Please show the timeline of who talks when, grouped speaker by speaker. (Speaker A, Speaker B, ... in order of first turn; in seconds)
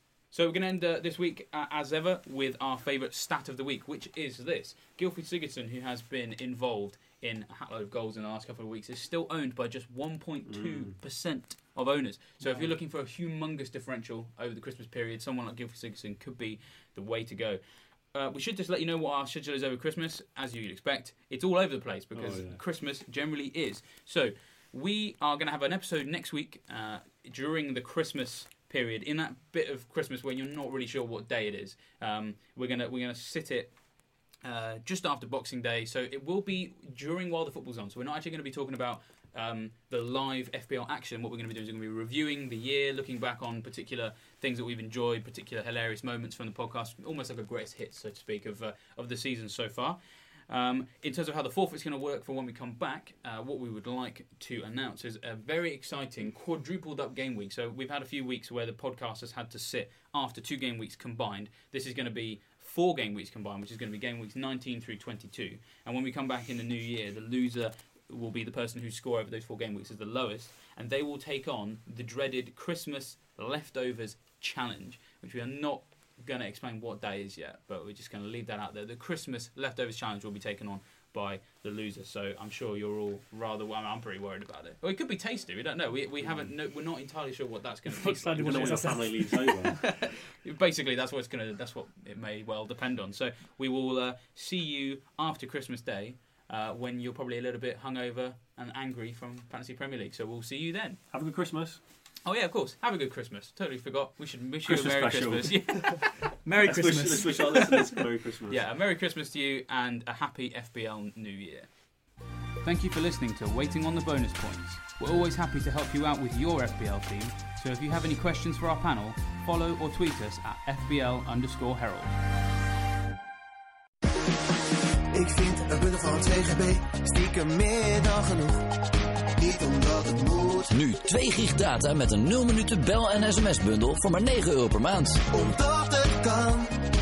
Speaker A: 0.3-89.4, 90.0-101.0, 102.2-106.2, 107.1-107.4, 108.5-122.2
Speaker B: 10.4-10.9, 22.1-22.6, 86.2-86.5, 88.4-90.0, 101.1-101.8, 104.6-106.0, 106.6-108.6
Speaker C: 12.4-12.7, 87.9-89.5, 106.4-107.9
Speaker D: 125.1-128.8, 129.4-130.7, 135.3-136.8
Speaker E: 130.7-135.2